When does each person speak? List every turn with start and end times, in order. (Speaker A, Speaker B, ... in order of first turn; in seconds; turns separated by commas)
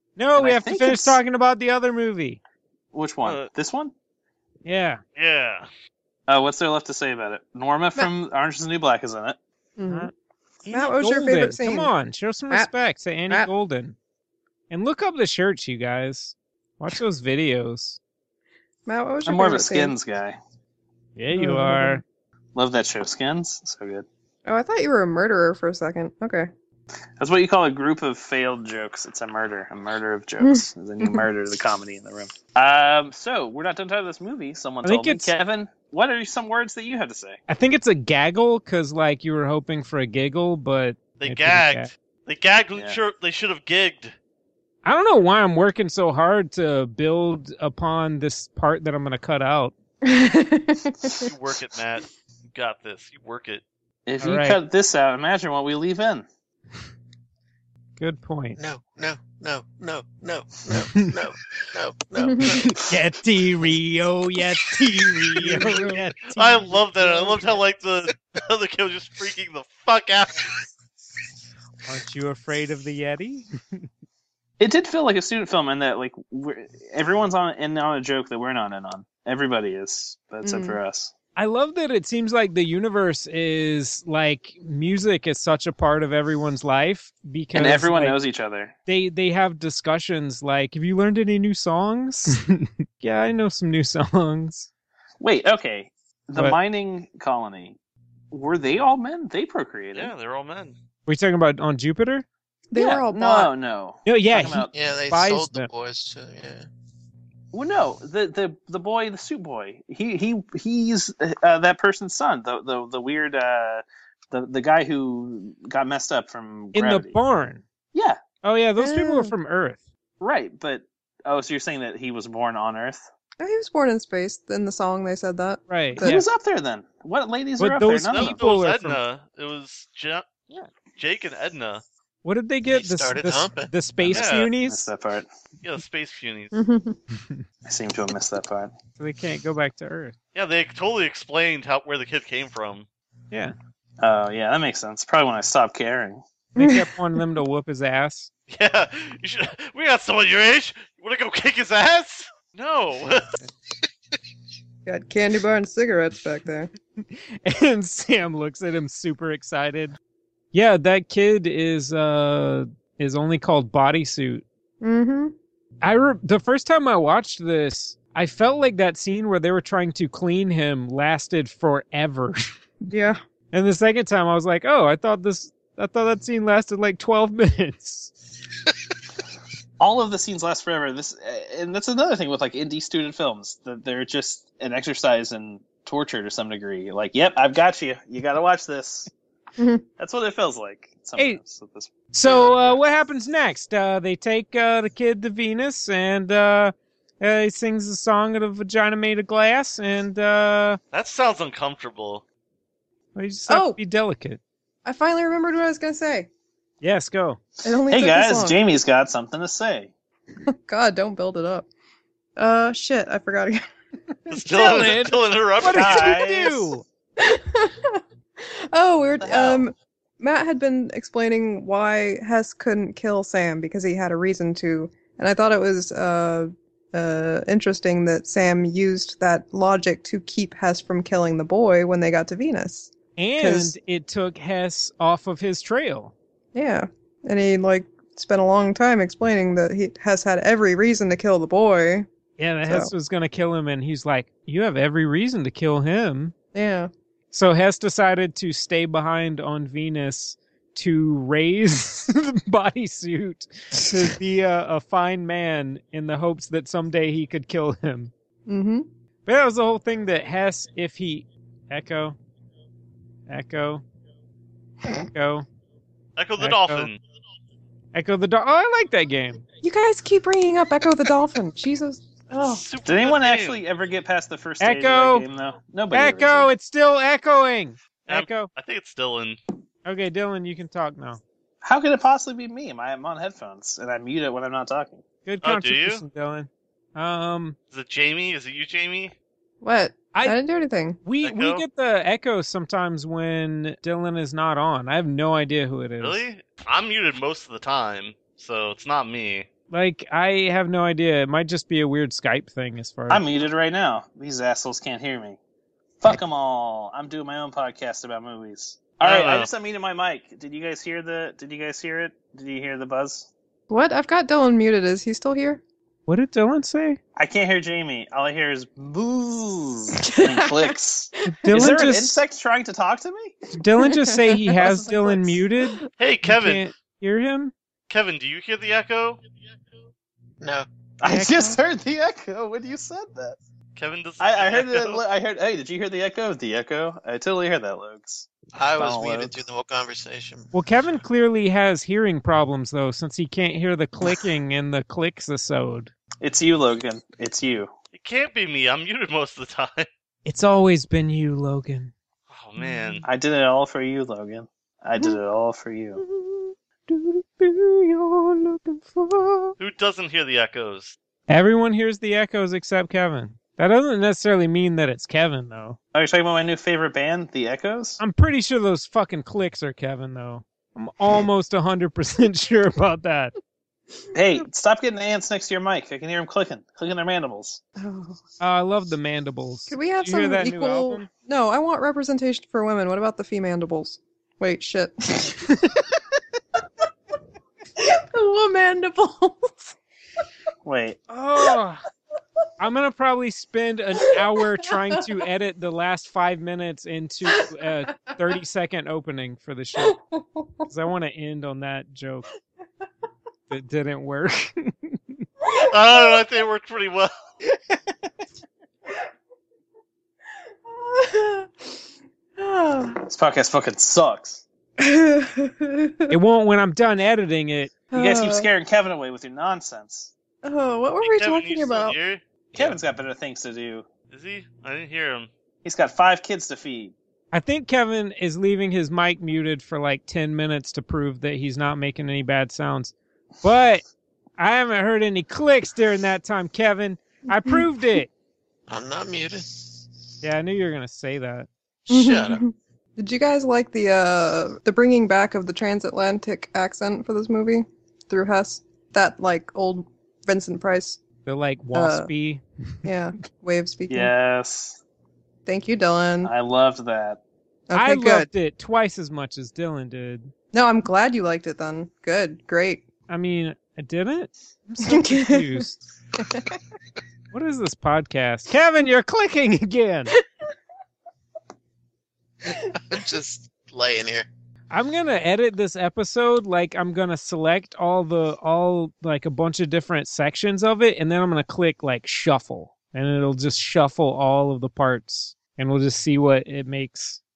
Speaker A: 0.2-2.4, Speaker B: 0.3-1.2, Speaker B: 2.9-3.9, Speaker C: 3.2-3.5, Speaker A: 4.7-5.0, Speaker C: 5.2-5.7, Speaker B: 6.3-9.4, Speaker D: 9.8-10.1, Speaker A: 10.7-14.0, Speaker D: 10.7-11.9, Speaker A: 14.7-18.0, Speaker D: 18.9-19.9, Speaker B: 19.3-20.4, Speaker A: 21.2-22.0, Speaker D: 21.3-22.0, Speaker B: 22.6-24.1, Speaker D: 24.5-26.5, Speaker B: 27.2-37.4, Speaker D: 30.4-31.2, Speaker A: 34.8-35.3, Speaker A: 37.5-41.9, Speaker C: 41.2-44.1, Speaker A: 44.8-49.8, Speaker D: 50.1-51.3, Speaker C: 51.2-53.6, Speaker B: 54.1-56.3, Speaker A: 54.2-54.6, Speaker A: 58.0-58.6, Speaker E: 58.6-62.9, Speaker D: 62.2-62.5, Speaker A: 62.7-66.8, Speaker D: 65.4-65.9, Speaker C: 66.3-70.6, Speaker A: 71.8-73.9, Speaker B: 74.6-81.1, Speaker D: 80.4-80.8, Speaker A: 81.4-88.2, Speaker B: 87.5-88.8, Speaker A: 88.9-94.7, Speaker B: 95.2-97.8, Speaker B: 98.3-100.1, Speaker C: 100.0-100.8, Speaker A: 101.1-102.2, Speaker D: 102.7-103.5, Speaker B: 102.7-104.7, Speaker A: 104.0-105.7, Speaker E: 104.7-106.7, Speaker B: 107.5-117.2, Speaker A: 116.7-117.6, Speaker B: 117.9-118.2, Speaker A: 118.4-119.8, Speaker D: 118.8-119.3, Speaker B: 120.2-123.1, Speaker D: 123.4-126.2, Speaker A: 125.7-126.1, Speaker B: 126.0-128.4, Speaker A: 127.6-129.0, Speaker C: 128.1-130.3, Speaker C: 131.0-131.8, Speaker A: 132.2-134.9, Speaker E: 132.7-133.7, Speaker B: 134.1-135.3, Speaker C: 134.1-134.5, Speaker C: 135.6-136.5, Speaker D: 136.5-137.0, Speaker B: 137.7-138.7, Speaker A: 139.0-140.2, Speaker C: 140.3-142.9, Speaker B: 144.0-146.2, Speaker D: 146.6-146.9, Speaker A: 146.6-148.3, Speaker C: 148.5-153.3, Speaker D: 154.9-156.7, Speaker A: 157.0-160.0, Speaker A: 160.5-164.4, Speaker D: 164.8-165.3, Speaker A: 165.8-172.5, Speaker D: 172.9-173.2, Speaker A: 173.5-178.1, Speaker B: 179.8-189.1, Speaker D: 189.6-189.8, Speaker B: 190.0-192.8, Speaker A: 192.1-200.8, Speaker C: 200.9-202.2, Speaker A: 203.2-204.4, Speaker D: 203.5-203.8, Speaker D: 204.8-206.3, Speaker A: 206.8-207.4, Speaker D: 207.7-208.6, Speaker B: 207.9-209.9, Speaker D: 210.5-211.7, Speaker D: 212.4-213.6, Speaker C: 214.3-216.3, Speaker D: 214.3-215.0, Speaker A: 214.5-216.8, Speaker B: 215.7-216.7, Speaker D: 217.2-233.7, Speaker B: 219.2-219.7, Speaker A: 233.2-236.1, Speaker D: 236.6-242.1, Speaker A: 242.4-246.3, Speaker D: 246.6-246.9, Speaker A: 247.3-258.1, Speaker D: 258.5-258.9, Speaker A: 259.3-262.2, Speaker A: 263.3-263.8, Speaker A: 265.1-265.5, Speaker C: 266.2-267.0, Speaker A: 266.4-266.9, Speaker A: 267.9-269.4, Speaker D: 269.6-272.6, Speaker C: 272.3-273.6, Speaker B: 272.9-276.5, Speaker A: 274.6-275.3, Speaker A: 275.9-278.5, Speaker C: 278.1-279.4, Speaker A: 279.9-281.2, Speaker B: 281.6-285.0, Speaker A: 285.3-287.6, Speaker C: 285.4-286.0, Speaker C: 287.7-289.1, Speaker D: 289.6-291.0, Speaker A: 291.0-296.3, Speaker C: 291.2-291.6, Speaker C: 296.0-299.5, Speaker A: 299.7-303.2, Speaker B: 303.1-305.4, Speaker B: 306.0-313.3, Speaker C: 309.0-309.5, Speaker D: 313.7-315.6, Speaker A: 316.1-317.0, Speaker B: 317.2-323.5, Speaker D: 320.1-320.7, Speaker A: 321.3-322.2, Speaker A: 323.6-327.5, Speaker D: 323.8-324.4, Speaker B: 324.5-325.4, Speaker C: 326.0-326.6, Speaker C: 327.9-329.2, Speaker E: 330.4-330.7, Speaker B: 331.0-333.4, Speaker A: 331.1-331.6, Speaker C: 333.8-335.0, Speaker B: 334.2-339.3, Speaker E: 338.5-340.5, Speaker A: 340.5-345.9, Speaker B: 346.2-347.7, Speaker C: 347.9-349.9, Speaker A: 350.2-351.9, Speaker C: 352.3-353.1, Speaker A: 352.6-353.0, Speaker B: 353.0-356.0, Speaker A: 356.0-359.6, Speaker C: 359.6-361.0, Speaker A: 361.3-365.8, Speaker B: 365.9-368.0, Speaker A: 368.0-373.3, Speaker B: 374.1-377.6, Speaker D: 377.8-378.2, Speaker A: 378.4-381.1, Speaker D: 379.7-385.6, Speaker D: 387.8-389.7, Speaker B: 390.6-391.0, Speaker A: 391.1-391.8, Speaker A: 392.6-400.0, Speaker D: 399.9-400.7, Speaker A: 400.7-402.3, Speaker A: 403.5-405.2, Speaker D: 405.6-406.2, Speaker C: 405.7-407.1, Speaker D: 410.7-411.7, Speaker D: 412.4-413.1, Speaker B: 413.1-414.4, Speaker D: 414.8-416.1, Speaker A: 416.1-417.7, Speaker D: 417.9-418.5, Speaker B: 417.9-420.1, Speaker D: 420.4-422.0, Speaker C: 421.0-422.8, Speaker B: 422.6-423.9, Speaker C: 424.1-425.3, Speaker B: 425.6-426.9, Speaker A: 427.3-433.8, Speaker A: 434.4-438.1, Speaker E: 438.7-439.8, Speaker A: 440.2-441.5, Speaker E: 441.9-442.4, Speaker D: 441.9-451.0, Speaker A: 451.3-452.9, Speaker D: 451.7-452.1, Speaker D: 452.9-454.1, Speaker B: 453.9-454.8, Speaker D: 455.5-456.3, Speaker B: 456.2-457.2, Speaker D: 457.7-458.3, Speaker A: 457.7-460.3, Speaker D: 460.5-462.9, Speaker A: 463.1-465.8, Speaker D: 464.8-465.6, Speaker A: 467.3-470.1, Speaker E: 472.6-474.3, Speaker A: 474.7-487.2